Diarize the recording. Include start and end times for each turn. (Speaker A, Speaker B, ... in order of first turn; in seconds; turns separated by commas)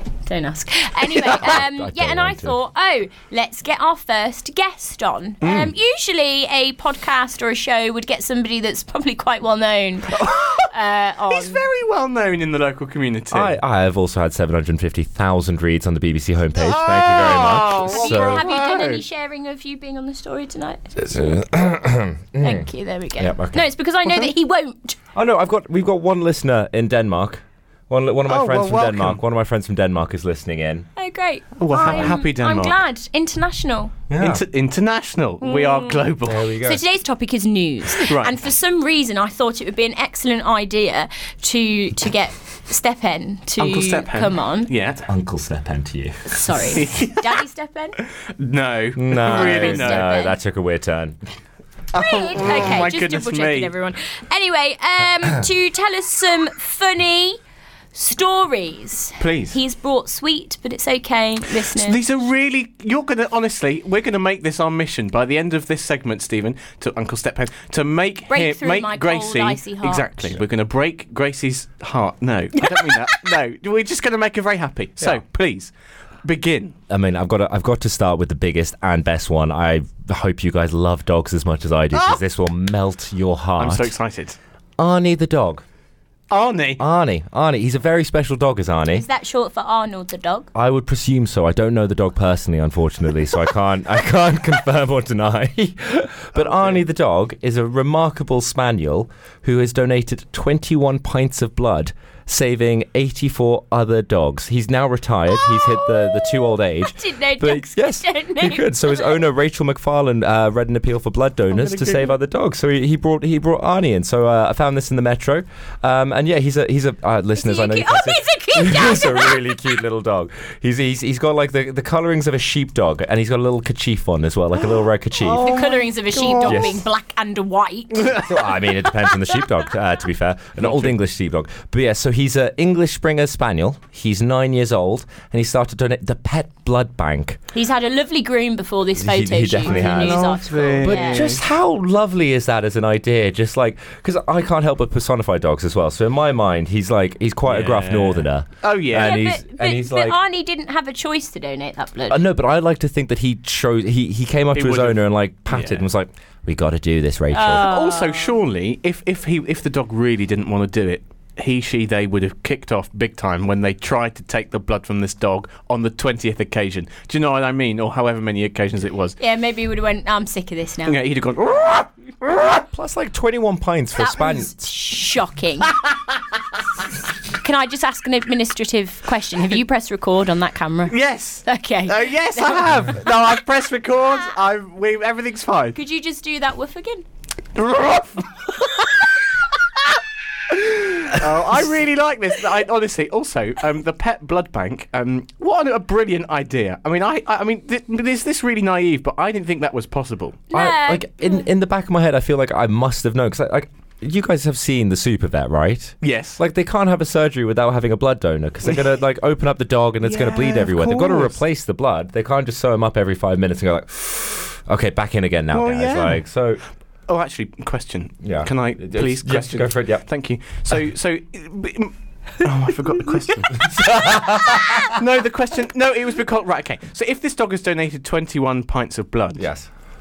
Speaker A: 0.3-11.6, Speaker B: 1.0-1.6, Speaker C: 1.4-2.6, Speaker B: 5.4-5.7, Speaker B: 10.1-10.7, Speaker B: 11.3-13.6, Speaker C: 13.3-18.5, Speaker B: 16.6-19.0, Speaker A: 17.9-20.9, Speaker C: 20.9-23.6, Speaker A: 22.4-25.0, Speaker B: 24.1-24.3, Speaker C: 25.1-30.9, Speaker B: 28.3-29.2, Speaker A: 31.0-33.9, Speaker B: 31.6-32.8, Speaker C: 31.8-32.2, Speaker C: 34.1-34.4, Speaker B: 34.2-36.5, Speaker A: 35.4-44.7, Speaker C: 36.2-36.8, Speaker B: 38.0-38.3, Speaker B: 43.6-45.1, Speaker C: 45.1-46.4, Speaker A: 46.2-48.0, Speaker B: 46.7-47.4, Speaker B: 48.4-50.1, Speaker C: 49.0-51.2, Speaker A: 49.3-50.4, Speaker B: 51.9-53.7, Speaker A: 51.9-57.4, Speaker A: 57.9-62.0, Speaker B: 59.2-59.6, Speaker B: 61.7-75.7, Speaker A: 68.3-70.3, Speaker A: 72.6-73.3, Speaker B: 76.2-76.8, Speaker C: 76.9-83.9, Speaker B: 81.9-82.2, Speaker B: 83.6-84.4, Speaker C: 84.8-85.6, Speaker B: 86.3-86.8, Speaker C: 86.8-89.0, Speaker A: 88.9-90.5, Speaker C: 90.5-125.6, Speaker B: 96.4-96.8, Speaker A: 105.4-109.2, Speaker B: 111.5-112.1, Speaker A: 117.4-119.7, Speaker B: 125.2-126.8, Speaker A: 125.4-128.3, Speaker C: 126.4-126.8, Speaker B: 128.0-128.3, Speaker C: 128.2-137.4, Speaker B: 130.6-130.9, Speaker A: 137.5-141.3, Speaker C: 139.0-150.2, Speaker B: 139.6-141.4, Speaker B: 147.5-149.2, Speaker A: 149.0-152.2, Speaker C: 152.1-157.7, Speaker B: 154.5-155.9, Speaker A: 157.3-158.3, Speaker B: 157.6-169.2, Speaker A: 169.2-171.0, Speaker B: 170.9-172.6, Speaker C: 172.4-174.7, Speaker A: 174.0-175.8, Speaker A: 177.2-182.9, Speaker B: 180.9-185.8, Speaker A: 185.8-187.1, Speaker B: 187.6-189.0, Speaker B: 190.5-200.5, Speaker A: 200.5-201.5, Speaker C: 200.5-216.6, Speaker B: 206.0-206.4, Speaker B: 210.0-211.4, Speaker B: 215.5-216.2, Speaker B: 217.1-229.5, Speaker C: 218.2-220.1, Speaker C: 223.6-225.0, Speaker C: 229.4-229.7